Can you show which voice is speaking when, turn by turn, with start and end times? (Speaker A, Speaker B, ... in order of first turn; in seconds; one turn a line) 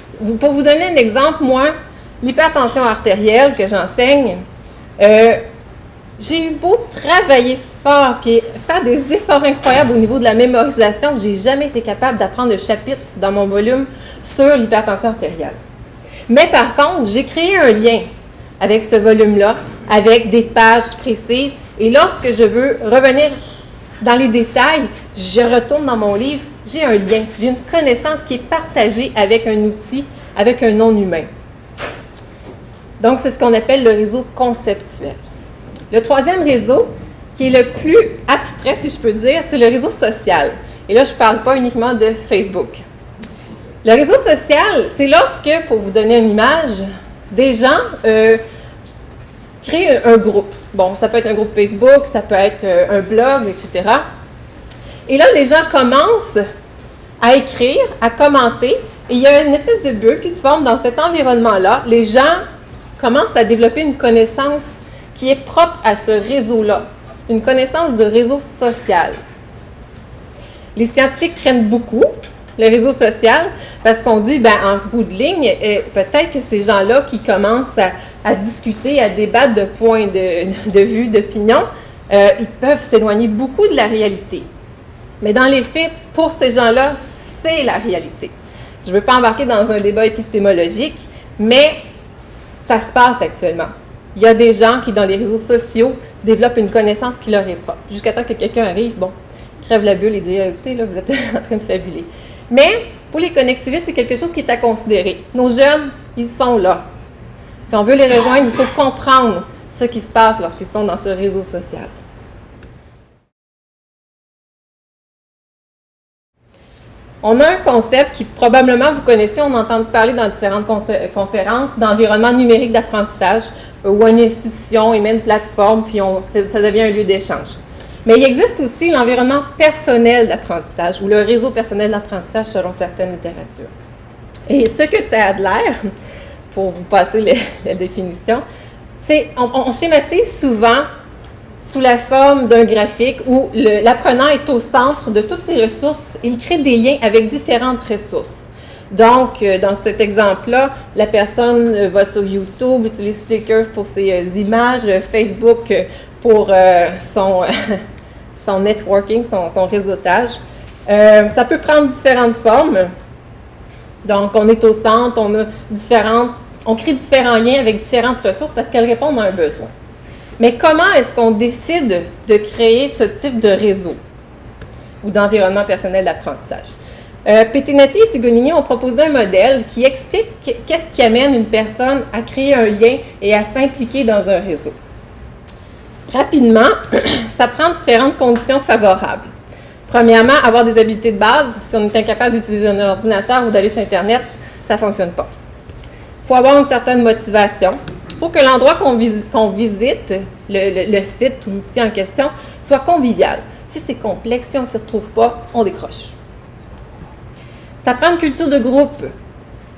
Speaker A: 0.2-4.4
Speaker A: 5.0-5.4
Speaker A: 6.2-15.6
Speaker A: 16.3-18.0
Speaker A: 18.6-23.3
Speaker A: 24.0-31.3
Speaker A: 33.0-35.2
Speaker A: 35.9-42.8
Speaker A: 43.8-48.4
Speaker A: 49.6-54.0
Speaker A: 55.1-56.4
Speaker A: 57.2-62.4
Speaker A: 63.0-69.2
Speaker A: 70.7-84.5
Speaker A: 85.2-88.3
Speaker A: 88.8-91.8
Speaker A: 92.6-106.8
Speaker A: 107.7-111.9
Speaker A: 117.2-133.7
Speaker A: 134.5-135.8
Speaker A: 136.5-138.4
Speaker A: 139.0-140.8
Speaker A: 141.6-148.3
Speaker A: 148.9-157.8
Speaker A: 158.4-162.9
Speaker A: 164.0-169.7
Speaker A: 170.4-174.0
Speaker A: 175.0-176.7
Speaker A: 177.2-184.7
Speaker A: 186.1-189.2
Speaker A: 189.9-195.3
Speaker A: 196.2-206.1
Speaker A: 207.8-209.1